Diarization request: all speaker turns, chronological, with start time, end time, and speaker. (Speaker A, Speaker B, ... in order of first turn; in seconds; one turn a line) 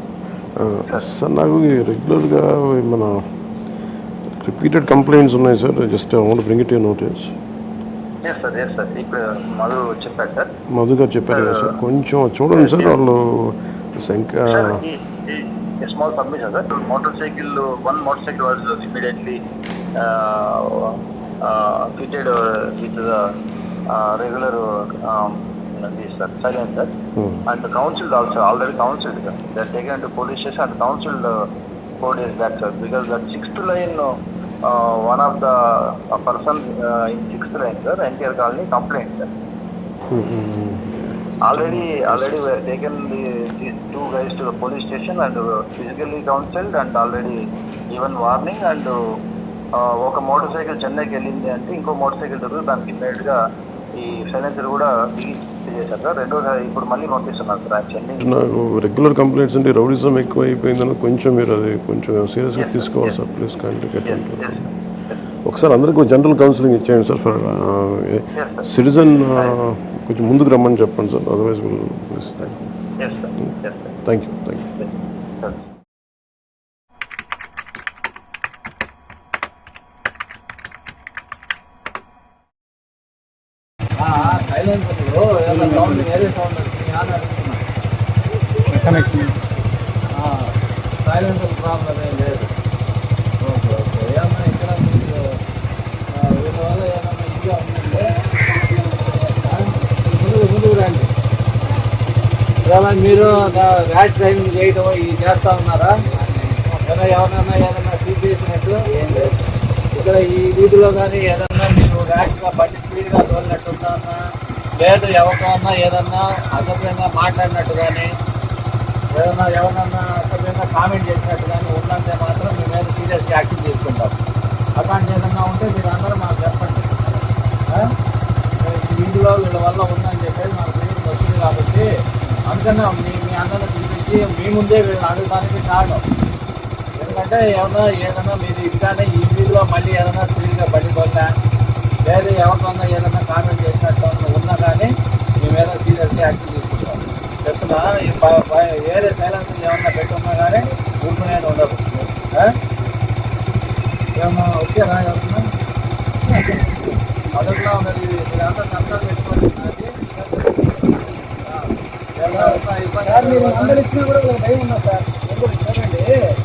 Speaker A: 0.6-3.8
Speaker A: 4.4-7.4
Speaker B: 8.2-10.5
Speaker A: 10.7-14.8
Speaker B: 11.3-11.8
Speaker B: 12.5-12.9
Speaker B: 14.5-19.4
Speaker B: 20.0-23.2
Speaker B: 23.9-26.9
Speaker A: 27.2-27.4
Speaker B: 27.5-31.3
Speaker B: 32.0-34.1
Speaker B: 34.7-39.3
Speaker A: 40.1-42.5
Speaker B: 41.5-47.4
Speaker B: 47.9-49.0
Speaker B: 49.8-53.4
Speaker B: 54.0-58.3
Speaker A: 58.2-64.8
Speaker B: 62.6-63.2
Speaker B: 64.0-65.2
Speaker A: 65.5-72.7
Speaker B: 68.4-68.7
Speaker B: 69.3-69.6
Speaker B: 73.0-74.0
Speaker A: 73.5-74.7
Speaker B: 74.8-75.6
Speaker C: 84.0-87.6
Speaker D: 85.5-86.3
Speaker D: 88.7-89.3
Speaker C: 90.1-92.5
Speaker C: 93.4-95.2
Speaker C: 96.1-101.1
Speaker C: 102.6-105.9
Speaker C: 106.8-109.3
Speaker C: 109.9-114.2
Speaker C: 114.8-118.1
Speaker C: 119.1-124.2
Speaker C: 124.8-127.1
Speaker C: 128.6-131.9
Speaker C: 132.5-136.0
Speaker C: 137.0-141.3
Speaker C: 142.1-152.5
Speaker C: 154.2-155.4
Speaker C: 157.3-163.8
Speaker D: 162.3-166.1